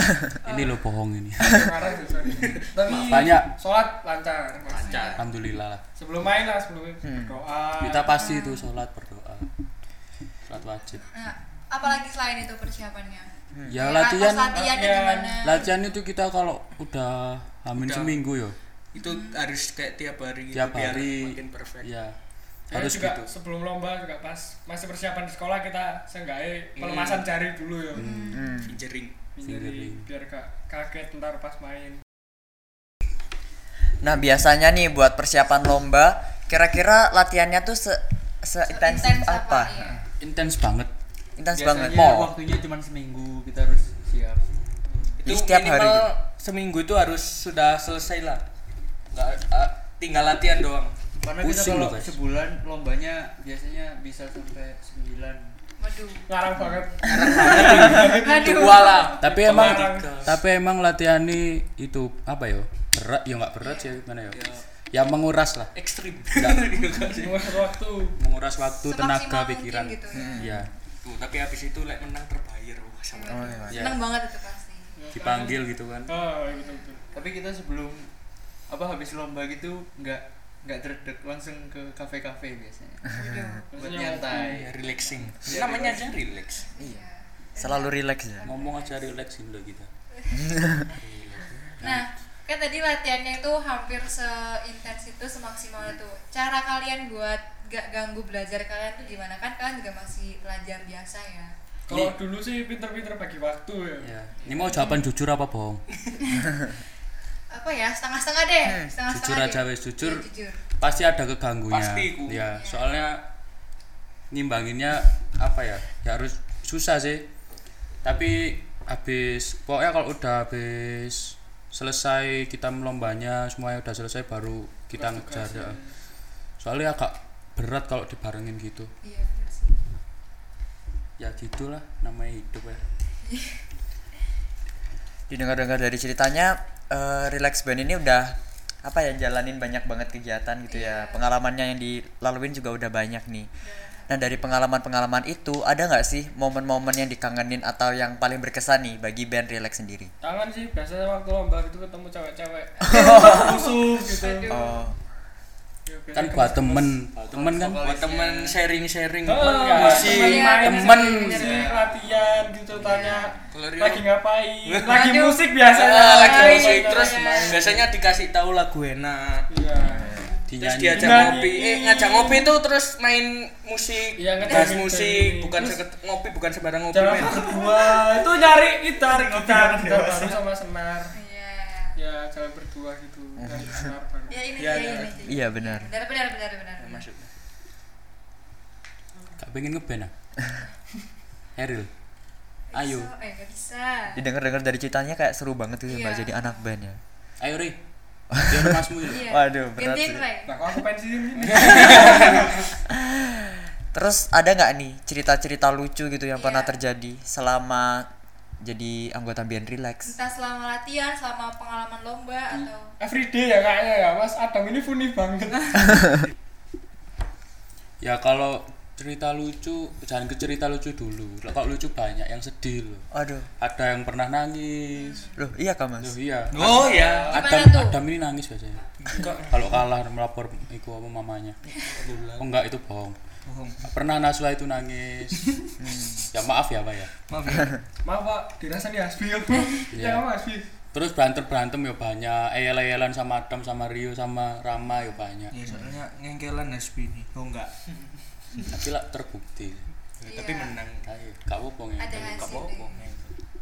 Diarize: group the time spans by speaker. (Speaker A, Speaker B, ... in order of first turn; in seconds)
Speaker A: 0.4-1.8, 2.9-3.5, 5.2-5.8, 7.8-9.5, 10.5-11.1, 13.7-14.6, 15.4-18.6, 20.5-22.1, 22.7-23.3, 27.9-28.4, 29.4-30.1, 40.2-40.9, 41.9-42.2, 51.4-52.1, 58.4-65.7, 66.3-66.8, 68.2-70.7, 73.7-74.0, 75.1-76.1, 88.4-89.9, 101.9-102.1, 104.0-105.8, 109.1-110.2, 110.8-113.2, 114.3-117.2, 118.0-125.8, 126.6-128.9, 131.2-132.8, 156.1-157.8, 159.4-161.4, 170.5-171.5, 189.4-190.1, 191.6-191.9, 192.7-193.1, 197.4-197.8, 198.4-199.2, 201.4-202.2, 218.0-223.1, 223.6-225.2, 226.0-231.6, 232.4-233.2, 233.9-235.4, 236.3-237.1, 239.9-240.2, 240.9-245.6, 248.7-249.9, 251.1-252.6
Speaker B: 1.4-5.2, 6.0-8.2, 14.6-15.5, 22.7-28.0, 29.4-32.0, 56.3-60.2, 67.2-68.1, 75.0-77.0, 83.7-84.5, 101.9-104.1, 125.0-125.9, 150.2-154.5, 155.9-156.9, 159.2-167.9, 169.5-170.2, 170.9-172.5, 174.2-175.8, 176.9-181.1, 182.0-184.4, 200.5-202.7, 213.0-216.1, 238.1-240.6
Speaker C: 2.5-3.0, 4.7-5.2, 17.7-18.2, 18.9-21.9, 26.8-27.3, 28.6-29.1, 45.2-48.4, 49.1-50.9, 57.0-60.3, 64.3-64.6, 65.8-67.5, 71.0-73.6, 84.4-86.7, 90.9-91.8, 111.7-112.4, 157.8-160.6, 163.5-164.1, 164.7-165.0, 165.7-169.5, 170.6-177.4, 184.6-185.3, 186.8-187.3, 201.5-202.4, 226.5-227.4, 229.1-229.6, 231.9-232.5, 233.5-233.8, 237.3-237.8, 245.5-247.7, 250.2-251.1, 252.2-253.3
Speaker D: 4.8-5.2, 8.1-8.7, 11.1-15.7, 19.0-19.4, 28.0-28.6, 38.7-40.0, 55.8-56.3, 58.1-59.2, 63.6-64.0, 68.9-70.5, 73.1-74.9, 76.5-76.8, 83.1-83.7, 86.7-89.1, 91.8-101.5, 104.7-105.0, 107.5-110.6, 112.5-112.8, 129.0-129.8, 133.2-133.6, 140.7-141.2, 143.6-144.1, 152.9-154.8, 160.0-161.7, 164.9-165.5, 166.1-167.6, 181.1-182.0, 184.3-187.1, 192.7-194.2, 195.9-196.6, 199.1-200.5, 206.4-206.8, 210.1-212.9, 224.9-225.3, 227.3-228.0, 250.3-250.7, 252.0-252.9
Speaker E: 7.0-7.4, 28.3-28.8, 34.0-39.8, 41.4-42.3, 45.2-46.1, 70.1-70.7, 73.3-73.9, 83.2-83.6, 87.5-88.4, 90.3-90.9, 108.7-108.9, 135.3-143.5, 144.1-150.1, 152.9-153.6, 154.5-155.0, 162.8-163.3, 183.4-183.9, 185.2-185.9, 194.1-197.0, 198.3-200.2, 202.9-208.1, 208.6-210.1, 223.1-223.5, 225.4-226.2, 235.8-236.2
Speaker F: 41.5-44.4, 51.2-55.5, 77.1-78.1, 78.7-83.1, 83.7-86.1, 104.4-104.7, 157.2-158.6, 161.4-162.4, 177.5-178.1, 179.0-180.4, 226.6-227.3